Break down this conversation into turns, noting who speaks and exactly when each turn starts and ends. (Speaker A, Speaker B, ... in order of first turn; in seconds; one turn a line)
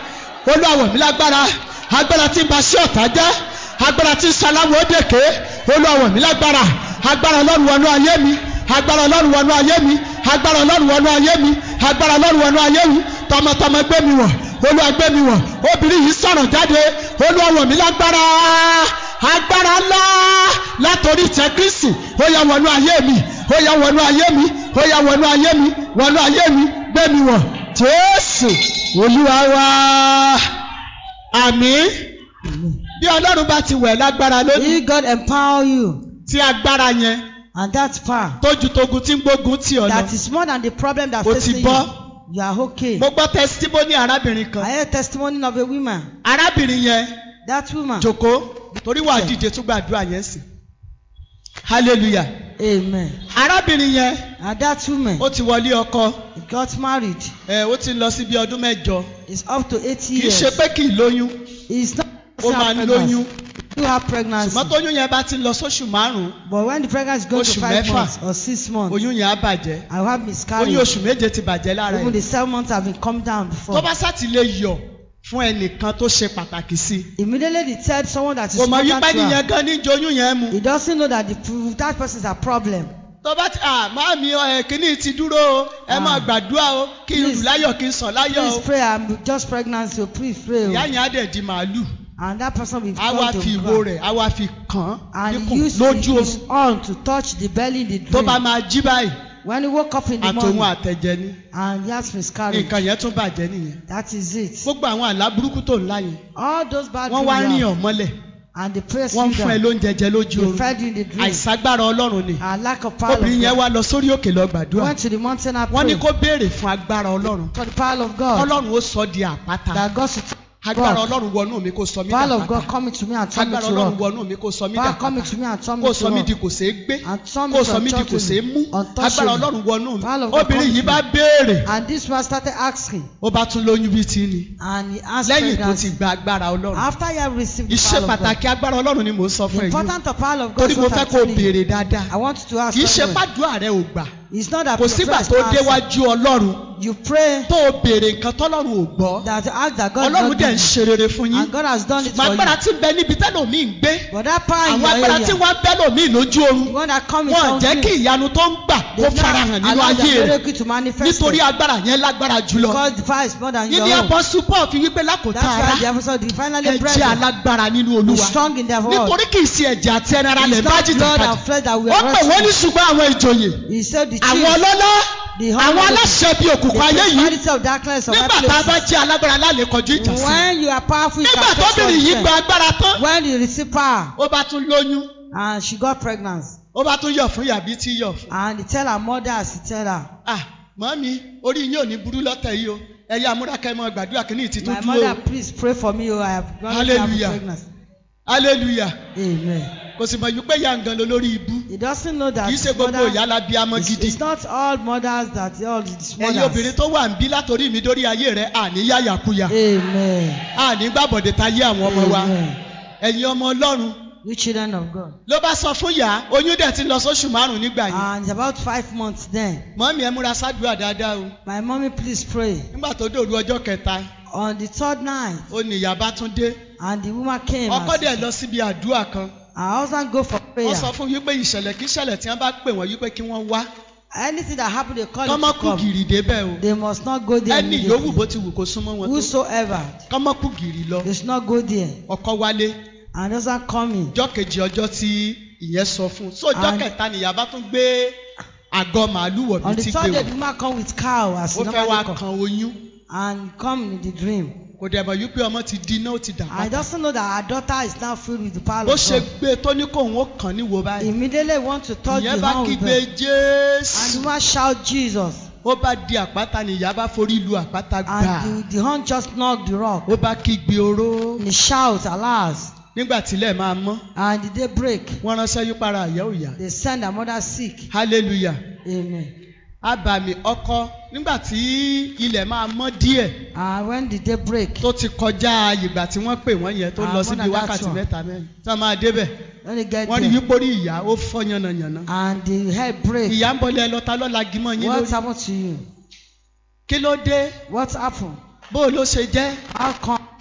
Speaker A: 0.4-30.4
Speaker A: 31.3-31.9
Speaker B: 32.4-32.8
Speaker A: 33.0-34.8
Speaker B: 34.5-36.0
Speaker A: 36.2-37.2
Speaker B: 37.5-38.4
Speaker A: 38.4-40.1
Speaker B: 39.8-43.1
Speaker A: 41.2-41.9
Speaker A: 43.0-44.7
Speaker B: 44.6-46.1
Speaker A: 46.2-47.1
Speaker B: 47.4-48.1
Speaker A: 48.0-50.4
Speaker B: 49.0-49.4
Speaker A: 51.6-52.3
Speaker B: 52.6-53.2
Speaker A: 53.3-54.2
Speaker B: 54.4-55.3
Speaker A: 55.2-56.2
Speaker B: 56.3-57.3
Speaker A: 57.5-59.1
Speaker B: 59.3-60.6
Speaker A: 60.1-61.4
Speaker B: 61.7-63.2
Speaker A: 62.4-63.3
Speaker B: 63.7-64.7
Speaker A: 64.4-66.3
Speaker B: 66.4-69.0
Speaker A: 67.3-68.1
Speaker A: 68.9-69.8
Speaker B: 69.9-70.9
Speaker A: 70.6-72.2
Speaker B: 71.9-73.9
Speaker A: 73.7-77.1
Speaker B: 77.2-79.4
Speaker A: 78.5-80.6
Speaker B: 80.5-82.9
Speaker A: 83.2-88.6
Speaker B: 85.9-86.3
Speaker B: 87.1-87.6
Speaker B: 88.2-90.9
Speaker A: 90.6-91.9
Speaker B: 92.2-93.8
Speaker A: 93.0-96.4
Speaker B: 95.1-98.4
Speaker A: 98.1-99.2
Speaker B: 99.4-100.7
Speaker A: 100.2-101.4
Speaker B: 101.5-102.8
Speaker A: 102.5-103.8
Speaker B: 103.9-104.7
Speaker A: 104.6-106.2
Speaker B: 106.3-107.7
Speaker A: 107.1-108.1
Speaker B: 108.5-109.6
Speaker A: 109.1-110.7
Speaker B: 110.3-111.4
Speaker A: 111.2-112.4
Speaker B: 112.4-113.6
Speaker A: 113.1-114.9
Speaker B: 114.7-116.0
Speaker A: 115.7-117.5
Speaker B: 117.5-118.5
Speaker A: 118.3-119.8
Speaker B: 119.7-121.1
Speaker A: 120.6-122.7
Speaker B: 122.1-124.0
Speaker A: 123.3-131.7
Speaker B: 124.7-126.3
Speaker B: 127.0-129.5
Speaker B: 130.0-131.0
Speaker B: 131.6-133.1
Speaker A: 133.2-134.5
Speaker B: 134.6-136.0
Speaker A: 135.2-136.9
Speaker B: 136.7-138.3
Speaker A: 137.7-139.9
Speaker B: 139.5-141.5
Speaker A: 140.6-142.1
Speaker B: 142.1-143.2
Speaker A: 142.7-144.1
Speaker B: 144.3-145.8
Speaker A: 144.8-146.7
Speaker B: 146.7-147.5
Speaker A: 147.5-149.2
Speaker B: 149.2-150.7
Speaker A: 150.0-154.1
Speaker B: 151.3-152.6
Speaker B: 154.1-155.4
Speaker A: 154.6-156.7
Speaker B: 156.7-157.9
Speaker A: 157.3-160.4
Speaker B: 158.9-161.4
Speaker A: 161.0-162.8
Speaker B: 162.5-164.1
Speaker A: 163.7-165.8
Speaker B: 165.3-167.2
Speaker A: 166.6-173.6
Speaker B: 168.0-169.2
Speaker B: 170.4-172.5
Speaker B: 173.7-174.6
Speaker A: 174.2-175.1
Speaker B: 175.3-178.8
Speaker A: 175.6-177.4
Speaker A: 178.1-180.4
Speaker B: 179.9-182.3
Speaker A: 181.2-183.0
Speaker B: 182.9-184.1
Speaker A: 184.2-185.1
Speaker B: 185.3-186.6
Speaker A: 186.7-188.3
Speaker B: 188.3-190.1
Speaker A: 190.2-195.2
Speaker B: 194.6-197.7
Speaker A: 196.7-197.4
Speaker A: 198.3-198.9
Speaker B: 199.1-199.7
Speaker A: 199.9-201.7
Speaker B: 201.7-203.2
Speaker A: 202.4-204.2
Speaker B: 203.7-206.7
Speaker A: 206.2-209.5
Speaker B: 209.5-210.4
Speaker A: 210.5-212.3
Speaker B: 211.8-212.6
Speaker A: 213.0-214.0
Speaker B: 214.2-215.2
Speaker A: 215.3-218.1
Speaker B: 217.9-219.6
Speaker A: 219.8-221.3
Speaker B: 221.4-222.7
Speaker A: 222.7-224.1
Speaker B: 224.3-225.5
Speaker A: 225.5-226.6
Speaker B: 226.8-228.2
Speaker A: 227.7-229.3
Speaker B: 229.5-230.9
Speaker A: 230.6-233.7
Speaker B: 234.1-235.9
Speaker A: 235.2-236.6
Speaker B: 236.6-238.2
Speaker A: 237.5-239.3
Speaker B: 239.0-240.0
Speaker A: 240.1-241.1
Speaker B: 241.0-242.0
Speaker A: 242.1-242.8
Speaker B: 243.1-244.1
Speaker A: 244.1-248.2
Speaker B: 246.5-246.9
Speaker A: 248.7-250.3
Speaker B: 249.6-252.2
Speaker A: 251.5-252.8
Speaker B: 253.1-254.6
Speaker A: 254.8-256.8
Speaker B: 256.5-259.3
Speaker A: 258.9-261.1
Speaker B: 261.0-263.0
Speaker A: 262.1-264.3
Speaker B: 263.9-265.5
Speaker A: 265.6-268.5
Speaker B: 268.1-270.1
Speaker A: 270.1-271.4
Speaker B: 271.4-272.7
Speaker A: 272.9-274.0
Speaker B: 274.1-275.2
Speaker A: 275.2-276.6
Speaker B: 276.6-277.9
Speaker A: 277.9-278.6
Speaker B: 278.8-279.3
Speaker A: 279.8-283.3
Speaker B: 283.5-284.9
Speaker A: 284.8-289.3
Speaker B: 287.0-288.0
Speaker B: 289.6-290.4
Speaker A: 290.1-292.1
Speaker B: 292.1-293.4
Speaker A: 293.3-295.2
Speaker B: 294.8-295.8
Speaker A: 296.9-297.5
Speaker B: 297.7-298.4
Speaker A: 298.7-299.6
Speaker B: 299.7-300.2